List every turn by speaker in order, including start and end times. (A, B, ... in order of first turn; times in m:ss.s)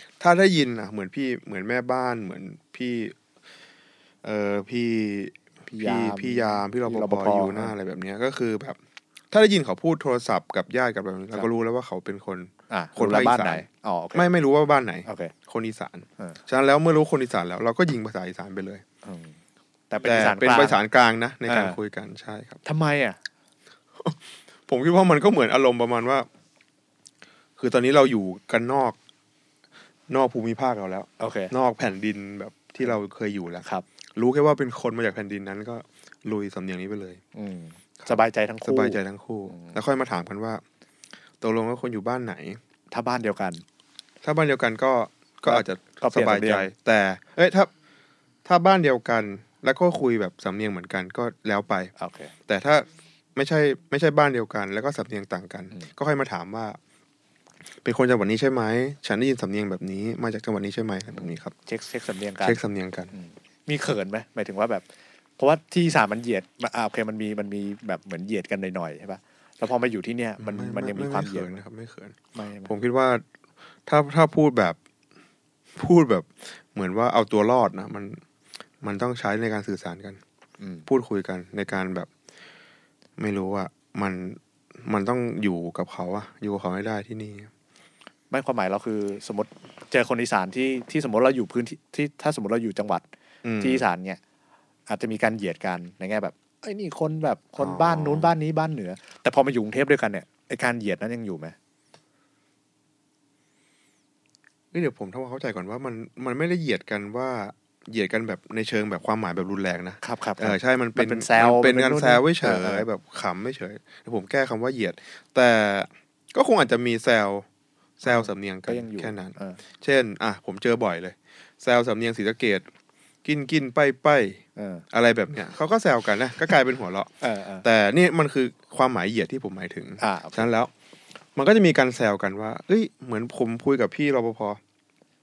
0:00.2-0:03.2 A
0:04.2-0:08.8 A
0:05.7-0:07.7 B
0:09.3-0:18.8 A
0:12.7-0:14.3 B
0:15.1-0:15.3 B
0:19.0-0:19.4 B
0:19.9-0:20.8 B
0:20.0-0:22.6 A
0:21.5-0:21.8 B
0:22.6-0:23.2 B
0:24.0-0:26.3 A
0:27.6-0:29.0 A
0:30.1-0:33.6 A
0:31.2-0:31.5 B
0:34.2-0:37.2 A
0:37.4-0:39.8 B
0:38.0-0:40.6 A
0:41.4-0:42.6 A
0:42.9-0:43.6 B
0:44.2-0:47.7 A
0:45.4-0:46.7 B
0:48.5-0:51.9 A
0:52.0-0:52.3 B
0:52.5-0:56.8 A
0:57.8-1:01.5 A
1:01.2-1:02.6 B
1:02.4-1:03.1 A
1:03.1-1:04.9 B
1:05.4-1:11.6 B
1:10.4-1:13.2 A
1:12.3-1:12.7 B
1:13.9-1:14.8 A
1:15.8-1:18.2 A
1:18.8-1:20.2 A
1:20.6-1:20.9 B
1:20.9-1:22.1 A
1:23.2-1:27.5 A
1:28.3-1:33.1 B
1:33.4-1:33.8 A
1:33.6-1:34.2 B
1:34.9-1:41.6 B
1:37.6-1:38.4 A
1:44.7-1:57.5 A
1:50.0-1:52.9 B
1:58.0-2:02.7 A
1:58.0-1:59.6 B
2:03.2-2:07.1 A
2:04.6-2:04.8 B
2:07.2-2:07.7 B
2:07.6-2:10.7 A
2:10.0-2:10.5 B
2:11.4-2:14.6 A